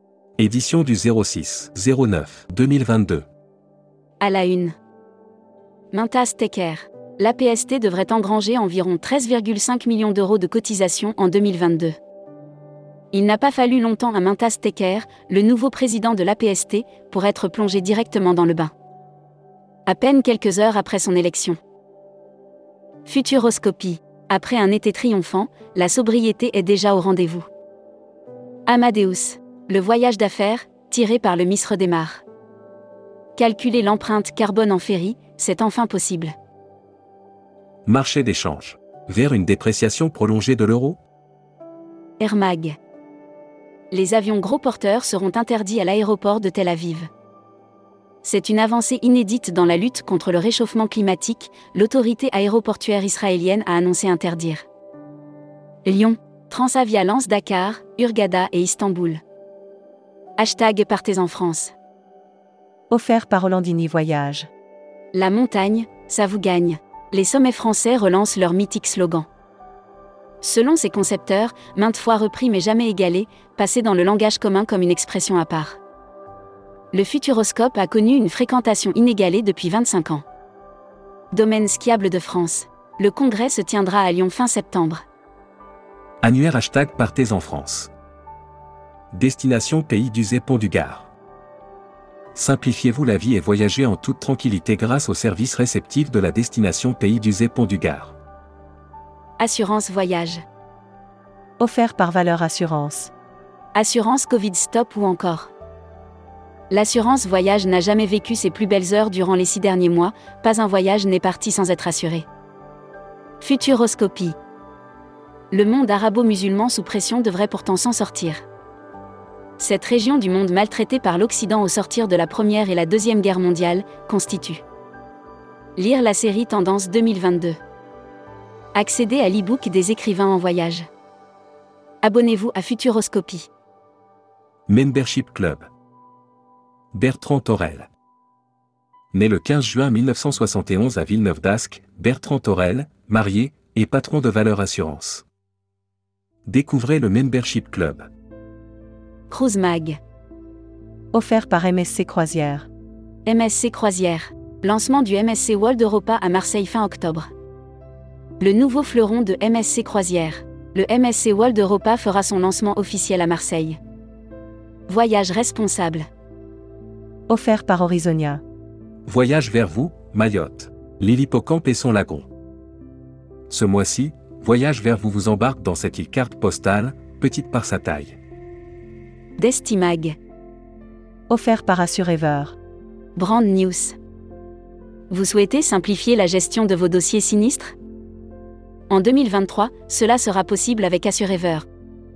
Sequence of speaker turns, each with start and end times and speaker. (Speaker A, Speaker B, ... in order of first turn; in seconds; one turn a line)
Speaker A: 0.4-3.2
Speaker B: 4.2-4.7
Speaker B: 5.9-12.0
Speaker B: 13.1-18.7
Speaker B: 19.9-21.6
Speaker B: 23.1-27.5
Speaker B: 28.7-32.2
Speaker B: 33.4-36.3
Speaker A: 37.9-41.0
Speaker B: 42.2-42.8
Speaker B: 43.9-47.1
Speaker B: 48.2-54.7
Speaker B: 55.9-59.2
Speaker B: 60.4-61.7
Speaker C: 62.9-64.5
Speaker B: 65.1-69.3
Speaker B: 70.4-75.8
Speaker B: 76.9-80.2
Speaker B: 81.3-85.0
Speaker A: 86.2-87.9
Speaker A: 89.1-91.1
Speaker A: 92.3-98.2
Speaker B: 99.4-100.4
Speaker C: 101.6-103.1
Speaker B: 103.7-105.5
Speaker B: 106.7-112.3
Speaker B: 113.4-114.4
Speaker B: 115.5-118.4
Speaker B: 119.6-124.6
Speaker B: 125.8-127.6
Speaker B: 128.8-130.9
Speaker B: 132.0-133.5
Speaker A: 134.7-135.7
Speaker A: 136.9-137.9
Speaker A: 139.1-145.2
Speaker A: 146.5-148.1
Speaker B: 149.3-150.0
Speaker C: 151.1-152.7
Speaker B: 153.2-157.3
Speaker B: 158.4-163.8
Speaker B: 164.9-166.1
Speaker C: 167.3-168.4
Speaker A: 169.1-172.3
Speaker A: 173.5-178.2
Speaker B: 179.4-180.2
Speaker C: 181.3-182.6
Speaker B: 183.2-184.0
Speaker B: 185.1-187.7
Speaker B: 188.9-191.7